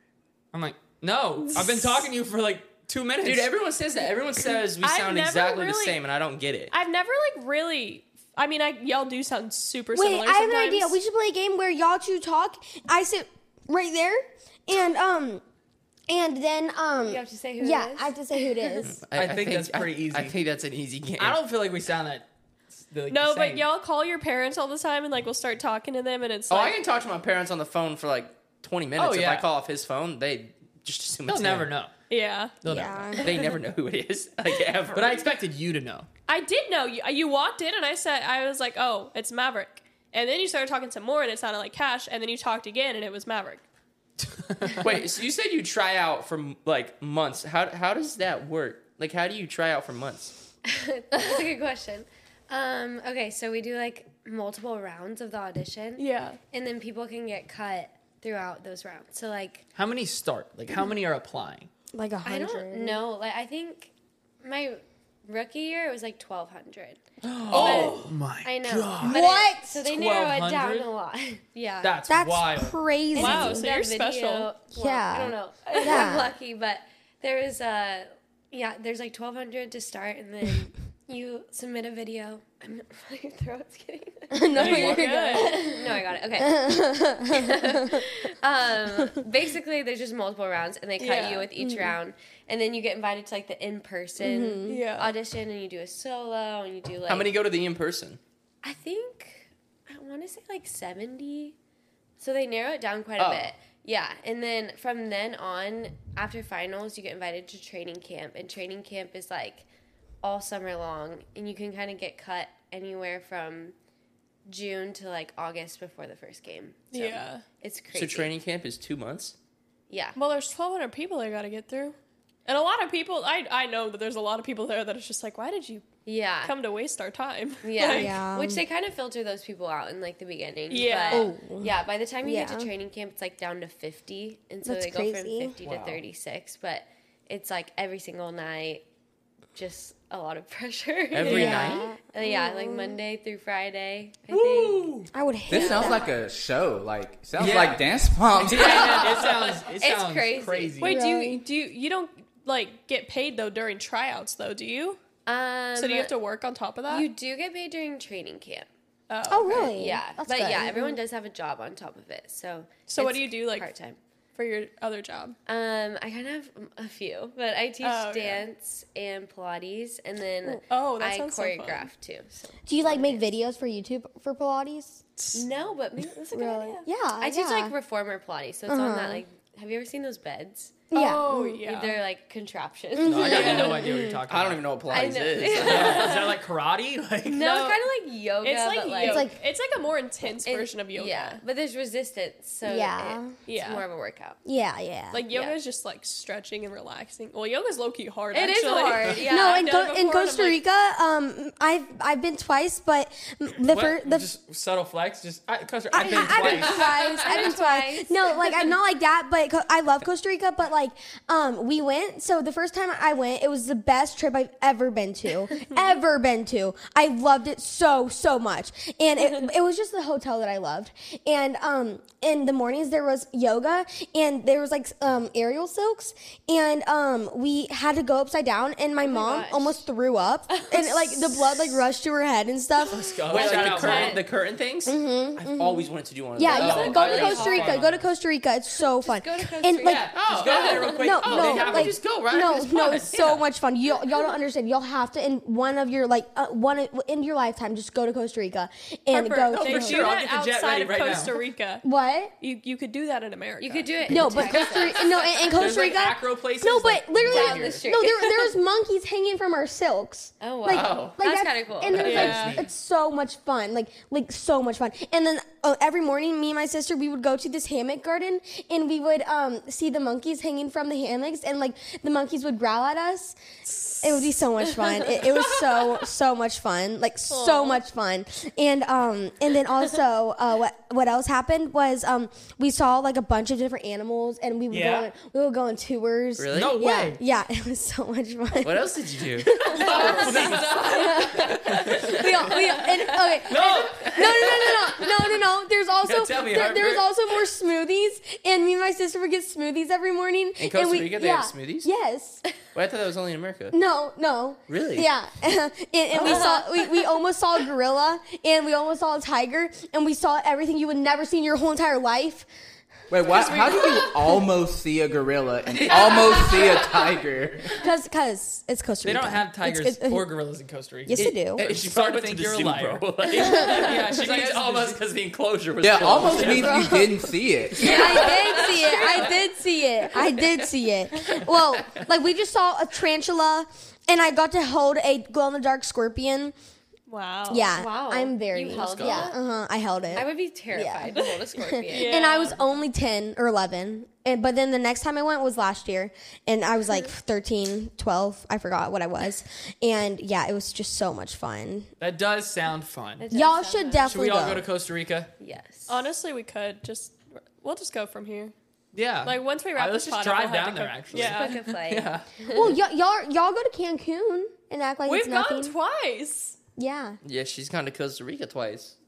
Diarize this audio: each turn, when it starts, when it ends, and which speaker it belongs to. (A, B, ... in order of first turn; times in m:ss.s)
0:00.5-0:03.5 A
0:03.2-0:06.7 B
0:04.8-0:06.0 C
0:06.7-0:11.0 C
0:09.9-0:15.4 D
0:16.1-0:19.0 D
0:17.0-0:18.1 E
0:18.8-0:21.4 B
0:19.1-0:20.3 A
0:21.2-0:22.2 A
0:22.8-0:23.7 A
0:23.1-0:26.8 C
0:26.5-0:31.7 B
0:29.0-0:29.4 A
0:31.3-0:31.9 A
0:32.1-0:32.6 C
0:32.6-0:33.2 A
0:32.6-0:33.3 D
0:33.2-0:35.3 B
0:34.9-0:36.1 A
0:36.3-0:43.6 C
0:44.4-0:44.9 A
0:44.8-0:50.3 B
0:50.6-0:59.6 E
0:56.0-0:56.4 C
0:59.7-1:01.7 A
1:01.9-1:03.0 D
1:02.2-1:11.9 E
1:07.2-1:09.2 A
1:07.4-1:08.0 B
1:09.0-1:09.8 D
1:09.8-1:10.9 A
1:11.8-1:12.8 A
1:12.1-1:13.6 D
1:13.1-1:14.6 C
1:13.1-1:37.3 E
1:14.7-1:16.3 D
1:24.3-1:28.0 D
1:24.6-1:25.0 A
1:24.9-1:25.6 C
1:31.0-1:31.5 C
1:34.2-1:34.8 D
1:34.6-1:35.1 C
1:37.1-1:38.2 B
1:38.6-1:41.6 E
1:42.2-1:49.6 E
1:43.2-1:43.5 B
1:50.2-1:53.7 E
1:54.4-1:58.3 E
1:56.9-1:57.4 C
1:57.9-1:59.3 B
1:59.9-2:00.2 E
2:00.2-2:01.9 C
2:02.4-2:05.9 C
2:06.0-2:06.5 E
2:06.4-2:08.2 C
2:07.6-2:18.8 E
2:07.8-2:08.6 D
2:10.7-2:11.3 C
2:11.1-2:12.7 D
2:14.6-2:15.6 D
2:15.6-2:15.9 A
2:19.5-2:26.0 E
2:21.1-2:21.9 B
2:21.2-2:23.0 D
2:24.3-2:25.1 A
2:25.1-2:26.1 D
2:25.5-2:29.2 F
2:27.4-2:31.0 A
2:28.5-2:29.6 B
2:28.6-2:31.0 E
2:30.8-2:35.0 C
2:30.8-2:31.4 D
2:35.3-2:36.1 E
2:35.8-2:37.1 C
2:36.9-2:38.7 E
2:39.1-2:39.8 C
2:39.3-2:41.0 D
2:39.5-2:44.0 E
2:42.9-2:43.7 C
2:44.4-2:45.4 C
2:45.4-2:53.2 E
2:47.8-2:48.4 C
2:50.5-2:51.9 C
2:52.6-2:55.0 D
2:55.3-3:03.8 E
2:56.3-2:57.7 D
2:58.7-2:59.2 D
3:00.9-3:01.4 D
3:00.9-3:02.0 C
3:03.0-3:04.2 D
3:03.0-3:07.5 A
3:03.3-3:03.8 C
3:04.3-3:06.2 B
3:04.9-3:06.3 E
3:05.8-3:06.1 C
3:07.3-3:09.3 E
3:07.4-3:07.8 C
3:08.4-3:11.4 C
3:09.0-3:09.4 D
3:10.2-3:14.4 E
3:12.6-3:13.3 D
3:13.5-3:13.9 C
3:14.4-3:15.2 D
3:15.1-3:20.6 C
3:15.3-3:15.6 E
3:18.3-3:19.6 E
3:19.2-3:24.3 D
3:23.7-3:26.9 A
3:25.9-3:53.1 D
3:26.0-3:28.7 E
3:49.0-3:49.8 E
3:50.5-3:51.8 E
3:52.9-3:54.2 A
3:53.3-3:57.1 B
3:53.4-3:54.2 C
3:54.9-4:00.0 D
3:56.5-3:58.0 A
3:56.5-3:57.8 E
3:58.9-4:01.0 E
3:59.8-4:02.0 A
4:00.1-4:03.4 B
4:00.9-4:10.1 D
4:09.1-4:11.8 C
4:09.5-4:11.4 A
4:11.8-4:12.3 D
4:12.4-4:14.7 C
4:13.6-4:15.3 E
4:14.1-5:02.4 D
4:15.5-4:17.8 A
4:17.2-4:18.4 E
4:17.4-4:17.7 B
4:20.4-4:22.5 E
4:20.7-4:21.2 B
4:21.9-4:22.3 B
4:22.0-4:22.7 A
4:22.0-4:22.6 C
4:37.3-4:37.8 C
4:44.7-4:45.1 A
4:46.4-4:46.9 B
4:46.5-4:47.2 A
4:48.6-4:52.2 B
4:49.7-4:52.1 A
4:49.9-4:50.2 E
4:52.8-4:53.2 E
4:53.5-4:54.3 A
4:53.5-4:55.0 B
4:56.0-4:57.1 B
5:00.6-5:01.9 B
5:02.7-5:03.8 B
5:03.7-5:12.5 D
5:04.7-5:05.1 B
5:06.2-5:06.9 E
5:13.1-5:17.7 F
5:13.3-5:14.3 C
5:15.7-5:16.8 B
5:15.9-5:17.1 E
5:17.7-5:20.3 D
5:19.0-5:25.0 A
5:21.0-5:21.6 D
5:21.1-5:26.8 B
5:23.4-5:23.9 D
5:25.8-5:28.2 F
5:26.1-5:26.9 A
5:26.5-5:36.6 D
5:27.8-5:29.4 E
5:37.1-5:37.8 C
5:37.5-5:51.9 D
5:37.7-5:39.4 E
5:38.7-5:39.3 B
5:40.1-5:42.6 E
5:41.9-5:42.6 C
5:52.0-5:53.3 A
5:53.2-5:54.1 E
5:53.3-5:54.7 D
5:54.1-5:55.3 A
5:55.4-5:55.9 E
5:55.9-5:58.5 C
5:58.9-6:02.3 A
5:59.2-6:01.6 C
6:01.1-6:02.7 E
6:02.5-6:05.7 D
6:05.0-6:06.6 C
6:06.8-6:07.2 D
6:07.2-6:09.0 B